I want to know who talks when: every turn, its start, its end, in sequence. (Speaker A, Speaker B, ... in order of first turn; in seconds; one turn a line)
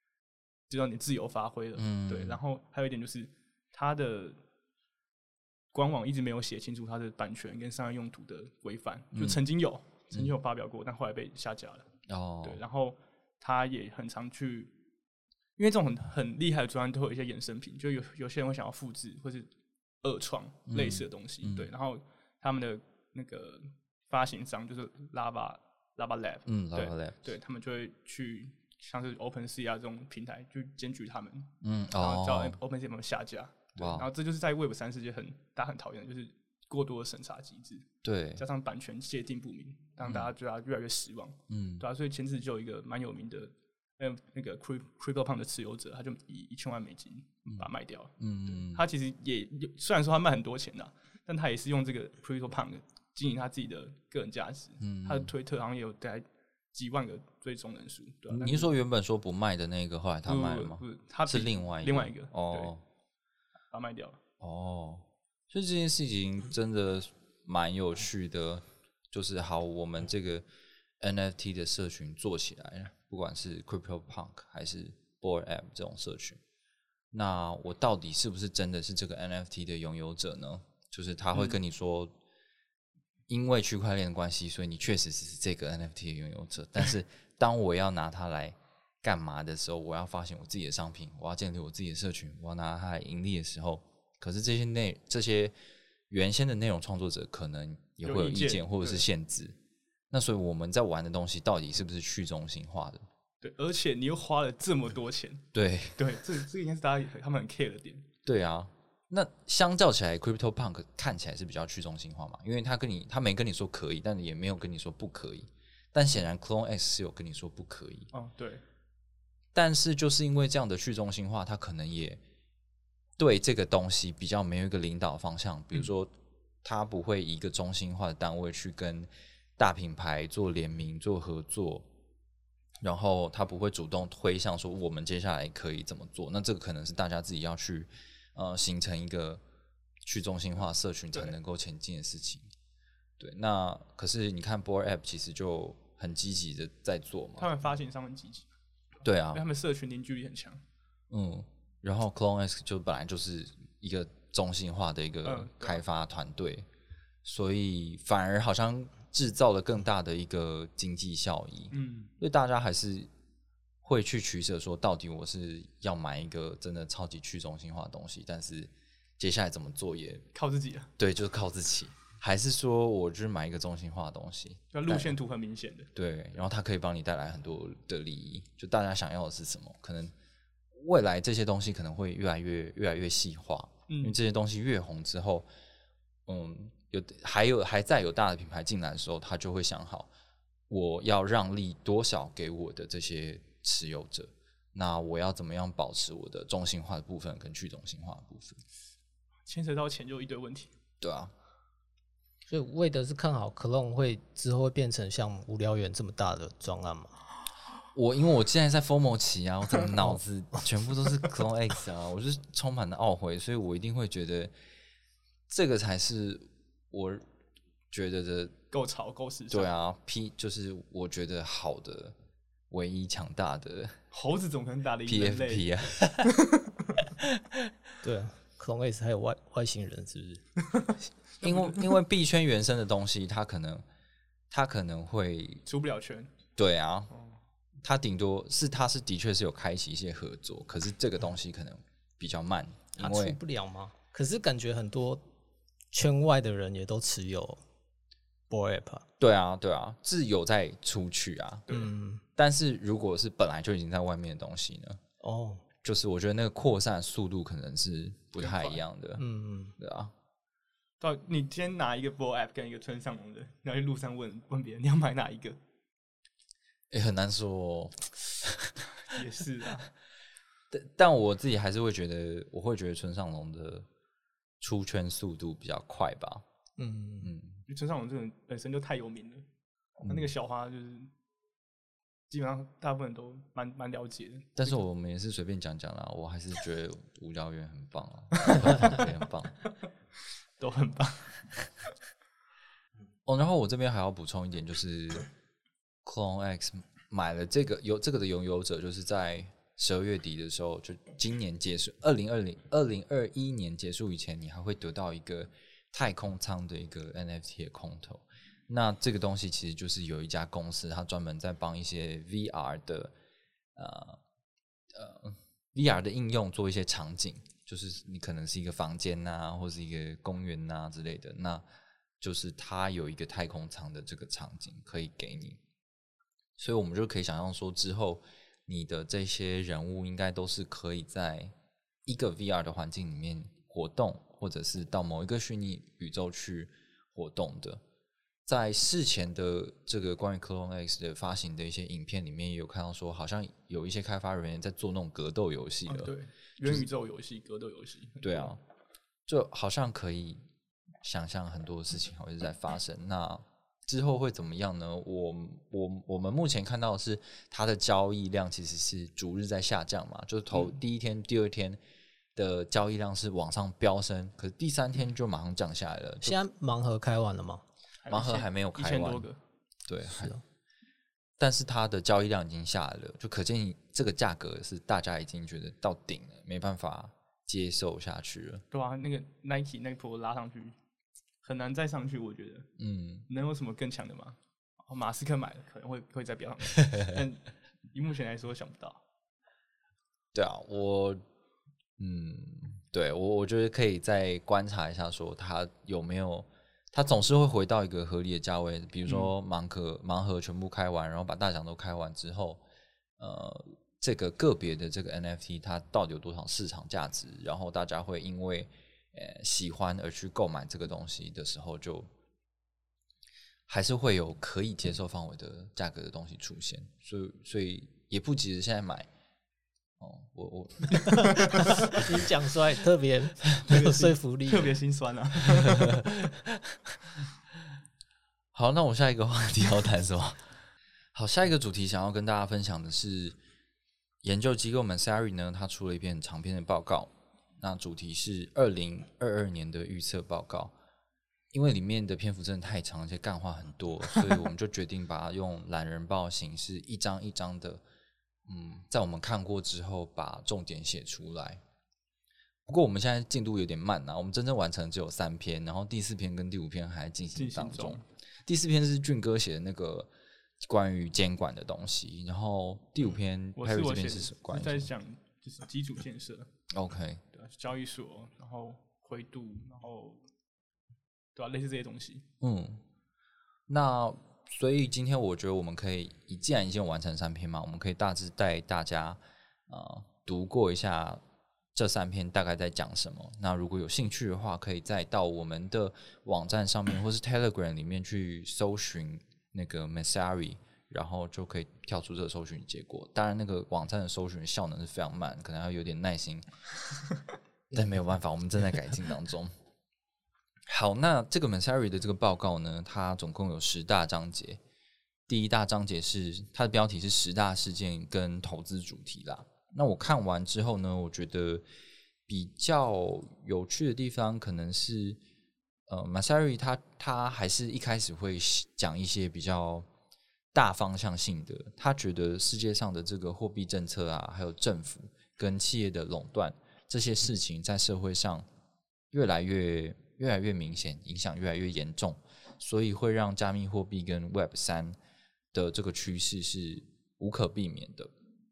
Speaker A: 0.7-4.4
Speaker B: 1.8-2.4
Speaker A: 5.7-11.9
Speaker B: 9.1-9.4
Speaker B: 12.1-12.6
Speaker A: 12.4-14.7
Speaker A: 15.6-19.5
Speaker A: 20.0-58.7
Speaker B: 20.7-21.7
Speaker B: 26.5-27.2
Speaker B: 31.6-32.6
Speaker B: 33.8-34.1
Speaker B: 38.0-38.4
Speaker B: 40.0-40.3
Speaker B: 41.5-41.9
Speaker B: 48.2-48.8
Speaker B: 54.8-55.3
Speaker B: 58.3-62.8
Speaker A: 60.2-62.7
Speaker A: 63.7-64.2
Speaker B: 64.4-70.5
Speaker B: 71.0-76.4
Speaker B: 77.1-82.1
Speaker B: 83.3-95.5
Speaker B: 96.1-99.6
Speaker A: 98.0-99.0
Speaker B: 100.1-103.0
Speaker A: 103.4-108.1
Speaker B: 105.5-106.1
Speaker B: 108.2-118.1
Speaker A: 118.1-118.6
Speaker B: 119.5-122.2
Speaker B: 123.2-131.9
Speaker B: 132.8-139.4
Speaker B: 140.0-142.5
Speaker B: 143.2-147.5
Speaker A: 147.4-148.5
Speaker B: 149.0-149.4
Speaker A: 149.3-150.6
Speaker B: 151.1-156.7
Speaker A: 155.2-155.8
Speaker B: 157.2-163.1
Speaker A: 161.7-162.1
Speaker B: 163.8-170.2
Speaker A: 170.3-170.9
Speaker B: 171.0-175.2
Speaker A: 174.7-175.9
Speaker B: 175.9-180.1
Speaker B: 180.7-185.5
Speaker A: 183.9-184.2
Speaker B: 186.3-190.1
Speaker B: 190.7-198.6
Speaker A: 199.5-200.7
Speaker B: 201.0-201.3
Speaker C: 202.5-207.2
Speaker B: 207.9-214.5
Speaker B: 215.5-217.3
Speaker B: 217.9-218.6
Speaker A: 218.7-219.7
Speaker B: 219.5-222.1
Speaker B: 222.7-224.0
Speaker A: 224.1-226.7
Speaker B: 225.0-226.3
Speaker B: 227.2-227.7
Speaker C: 228.0-230.4
Speaker B: 231.4-233.8
Speaker A: 231.4-231.9
Speaker B: 234.5-235.6
Speaker A: 235.7-236.3
Speaker B: 236.6-237.1
Speaker B: 237.8-243.4
Speaker C: 243.0-245.2
Speaker C: 245.9-247.6
Speaker C: 248.5-249.1
Speaker B: 249.2-251.7
Speaker C: 251.7-252.2
Speaker B: 252.3-255.0
Speaker C: 255.2-255.6
Speaker B: 255.8-260.1
Speaker A: 258.4-258.8
Speaker C: 259.2-259.7
Speaker A: 261.0-265.6
Speaker B: 266.9-269.1
Speaker A: 269.0-269.9
Speaker B: 270.7-273.9
Speaker B: 274.6-276.4
Speaker C: 276.8-277.3
Speaker B: 277.2-277.6
Speaker A: 277.7-279.4
Speaker B: 280.0-280.3
Speaker A: 280.0-281.1
Speaker A: 282.3-284.8
Speaker B: 284.6-289.6
Speaker A: 290.6-291.9
Speaker B: 293.2-295.3
Speaker B: 296.0-313.1
Speaker B: 313.7-314.2
Speaker B: 314.9-321.6
Speaker B: 322.2-325.6
Speaker B: 326.6-331.5
Speaker B: 332.0-337.8
Speaker B: 338.4-346.9
Speaker A: 345.9-348.5
Speaker B: 348.2-348.6
Speaker B: 349.3-350.5
Speaker B: 351.0-361.8
Speaker B: 362.3-366.4
Speaker C: 366.2-367.6
Speaker A: 368.0-369.4
Speaker B: 368.1-369.3
Speaker B: 369.9-370.3
Speaker C: 370.1-370.4
Speaker B: 371.4-378.6
Speaker A: 378.7-380.8
Speaker A: 381.4-382.7
Speaker B: 382.8-383.3
Speaker A: 383.3-389.0
Speaker B: 390.3-391.2
Speaker B: 392.0-402.6
Speaker B: 403.2-412.1
Speaker B: 413.7-419.1
Speaker B: 420.0-421.7
Speaker C: 421.9-424.7
Speaker A: 423.6-426.0
Speaker B: 425.8-427.0
Speaker B: 428.5-430.6
Speaker B: 431.1-433.4
Speaker B: 434.2-440.7
Speaker B: 441.5-447.8
Speaker B: 448.4-451.6
Speaker B: 452.6-460.1
Speaker A: 457.3-458.0
Speaker B: 460.6-464.9
Speaker A: 463.6-466.5
Speaker B: 466.7-467.2
Speaker A: 467.3-470.2
Speaker A: 471.3-472.2
Speaker B: 472.4-472.8
Speaker B: 473.7-481.2
Speaker B: 481.7-496.4
Speaker B: 497.7-499.5
Speaker B: 500.7-504.6
Speaker B: 505.3-511.6
Speaker B: 512.3-515.2
Speaker B: 515.9-519.9
Speaker B: 520.5-528.5
Speaker B: 529.1-535.0
Speaker B: 535.5-538.1